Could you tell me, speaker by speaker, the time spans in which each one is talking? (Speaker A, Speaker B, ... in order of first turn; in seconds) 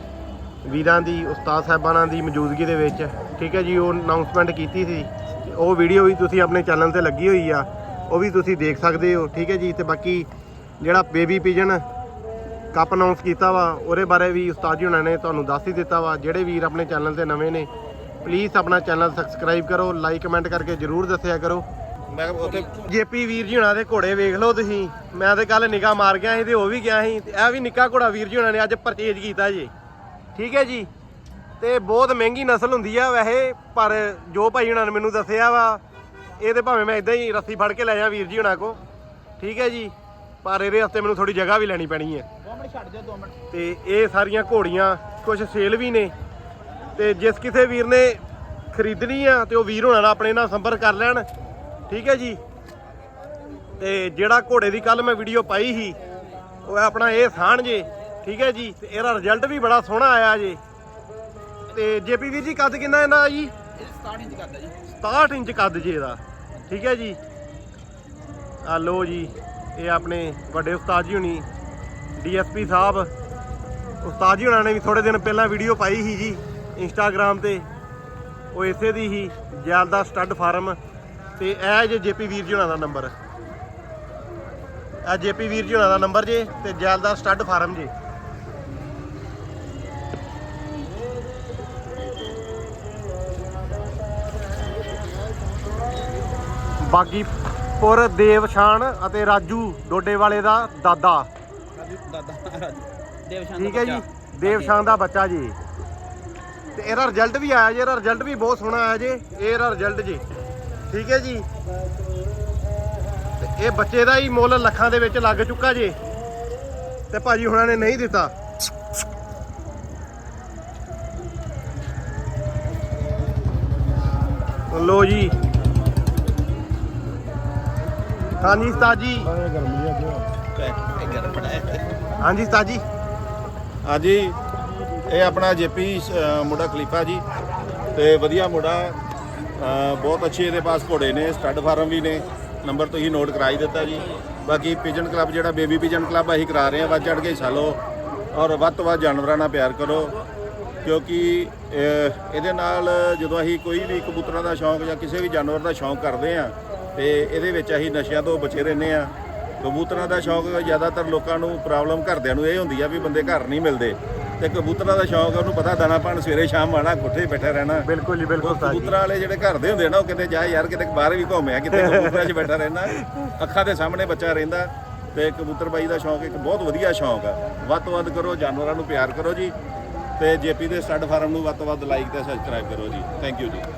Speaker A: 0.6-10.3, 10.8-11.8, 12.7-17.7, 18.2-21.6, 22.6-29.7, 30.4-30.9, 31.6-35.8, 36.4-38.8, 39.4-42.3, 43.5-46.1, 47.0-51.2, 51.9-52.4, 53.8-56.0, 56.6-60.6, 61.7-63.6, 64.9-67.2, 68.6-71.5, 72.2-73.1, 74.0-77.7, 78.5-80.8, 81.4-83.1, 85.0-87.9, 96.8-101.3, 103.5-105.6, 106.8-110.2, 110.9-111.5, 113.4-116.0, 117.1-118.3, 124.7-125.3, 128.4-129.4, 132.2-132.8, 167.8-168.9, 171.7-173.2
Speaker B: 22.1-22.9, 130.6-131.9, 133.8-134.4, 135.1-137.2, 137.9-139.0, 139.6-147.8, 148.3-150.2, 150.8-167.9, 168.4-179.6, 180.2-183.7
Speaker C: 42.6-43.3, 64.0-64.7, 101.8-103.9